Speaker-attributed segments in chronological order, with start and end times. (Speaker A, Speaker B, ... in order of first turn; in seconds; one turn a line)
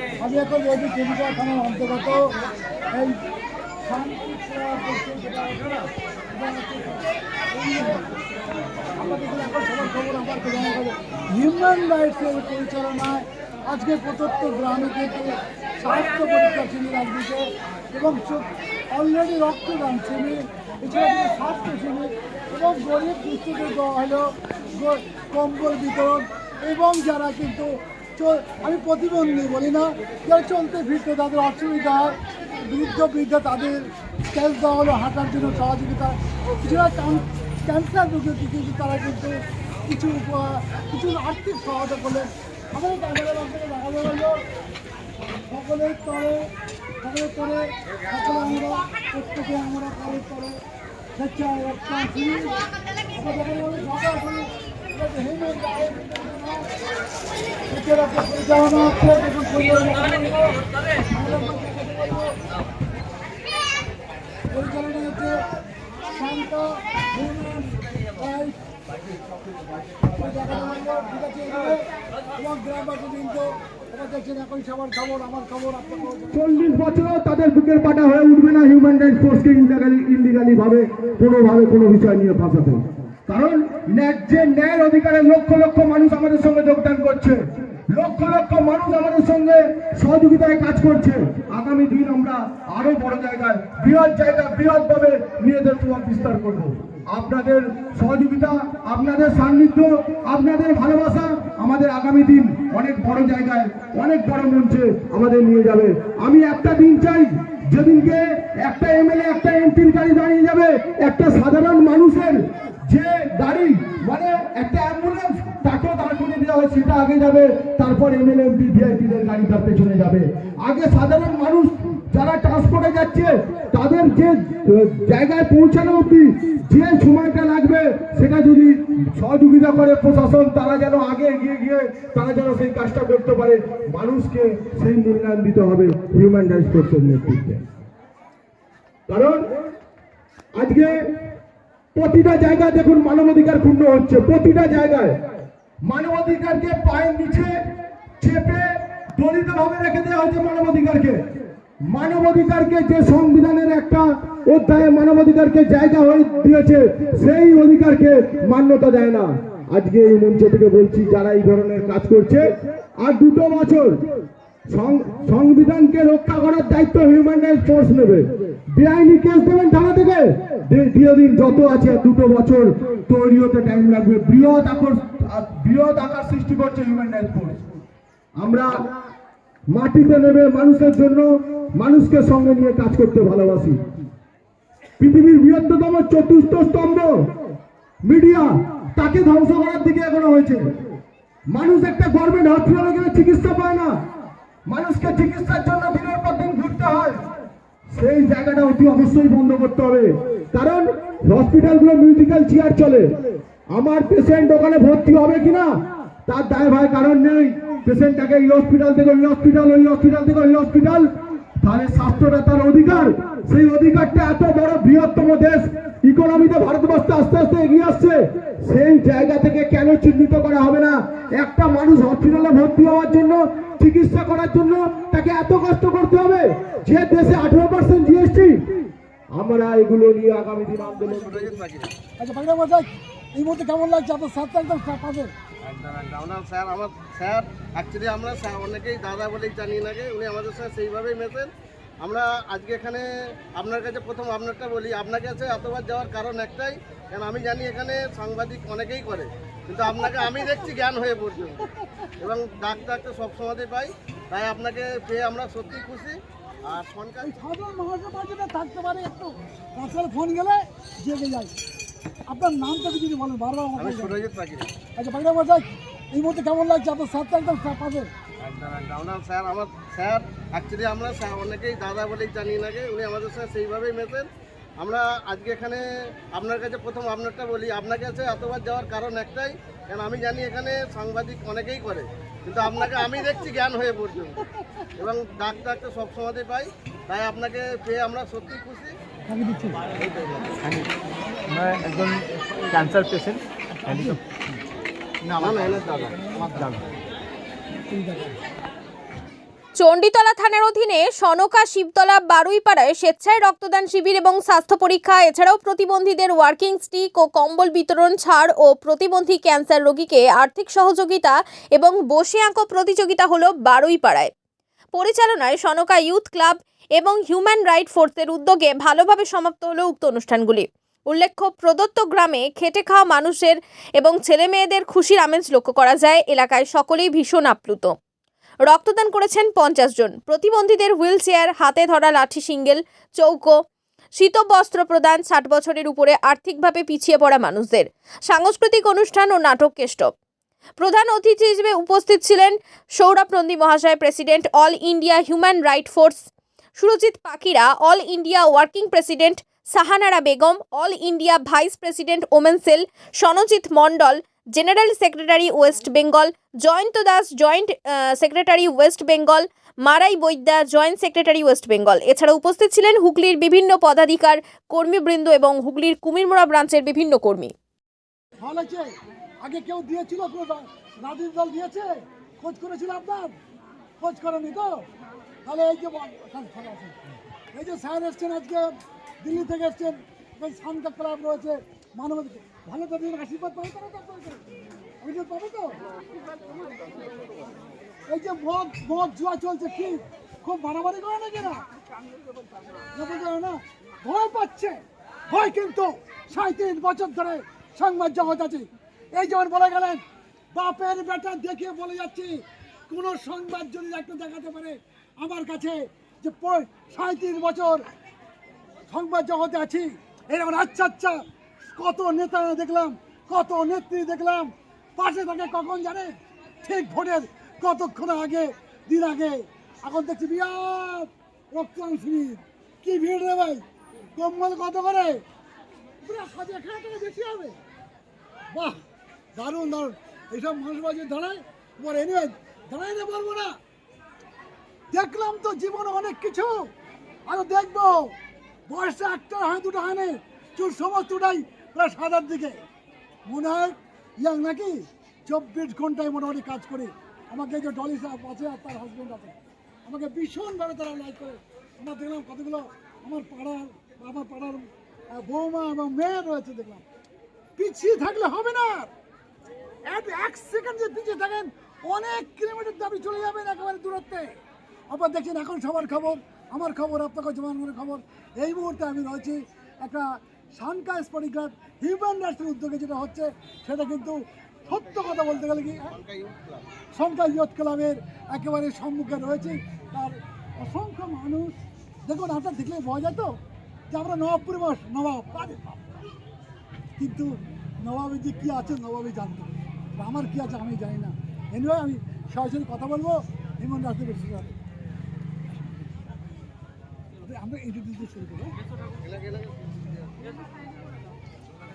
Speaker A: 0.2-2.3
Speaker A: 2.9-3.2
Speaker A: 3.8-8.0
Speaker A: 9.0-33.8
Speaker A: 34.3-39.3
Speaker A: 39.9-44.4
Speaker A: 45.5-46.5
Speaker A: 47.0-50.6
Speaker A: 51.2-52.5
Speaker A: 53.1-56.7
Speaker A: 57.7-62.4
Speaker A: 64.5-65.4
Speaker A: 66.1-68.6
Speaker A: 70.1-71.8
Speaker A: 72.4-76.4
Speaker B: 76.3-137.6
Speaker B: 139.1-139.4
Speaker B: 140.6-141.0
Speaker B: 141.9-145.2
Speaker B: 145.8-147.6
Speaker B: 148.2-151.2
Speaker B: 151.9-162.5
Speaker B: 163.0-164.0
Speaker B: 164.7-177.6
Speaker B: 178.4-178.9
Speaker B: 179.7-183.8
Speaker B: 185.0-187.3
Speaker B: 188.0-190.7
Speaker B: 191.5-193.9
Speaker B: 194.7-197.2
Speaker B: 197.9-203.1
Speaker B: 203.7-205.7
Speaker B: 206.3-211.1
Speaker B: 211.6-228.6
Speaker B: 229.3-231.4
Speaker C: 231.1-231.9
Speaker A: 232.2-235.3
Speaker C: 235.6-251.7
Speaker A: 249.9-250.7
Speaker A: 251.7-252.1
Speaker C: 252.2-257.3
Speaker A: 257.2-261.5
Speaker A: 262.3-264.2
Speaker C: 263.8-264.7
Speaker A: 265.0-268.1
Speaker C: 268.4-284.4
Speaker A: 282.7-283.2
Speaker A: 284.4-284.9
Speaker C: 285.0-288.9
Speaker A: 289.3-289.8
Speaker C: 290.0-290.5
Speaker D: 290.6-290.9
Speaker D: 291.5-294.2
Speaker A: 293.9-294.2
Speaker D: 295.3-296.8
Speaker C: 295.4-296.7
Speaker A: 297.9-298.4
Speaker E: 299.8-314.3
Speaker E: 314.9-327.9
Speaker E: 328.7-333.5
Speaker E: 334.2-340.1
Speaker E: 340.8-367.5
Speaker A: 368.4-368.9
Speaker A: 369.4-371.9
Speaker A: 372.4-373.3
Speaker A: 374.0-374.9
Speaker A: 375.4-377.0
Speaker A: 377.5-384.4
Speaker A: 385.0-385.8
Speaker A: 388.1-391.6
Speaker A: 392.9-407.9
Speaker A: 408.9-423.6
Speaker A: 424.1-425.2
Speaker A: 426.0-427.6
Speaker A: 428.5-428.8
Speaker A: 429.4-433.6
Speaker A: 434.9-436.7
Speaker A: 437.3-438.2
Speaker A: 438.7-442.6
Speaker A: 443.3-456.9
Speaker A: 457.6-458.9
Speaker A: 459.9-464.4
Speaker A: 464.9-475.9
Speaker C: 475.8-476.6
Speaker A: 476.9-481.5
Speaker A: 482.1-483.4
Speaker A: 483.9-485.8
Speaker A: 487.0-494.6
Speaker A: 497.2-498.6
Speaker C: 499.0-499.9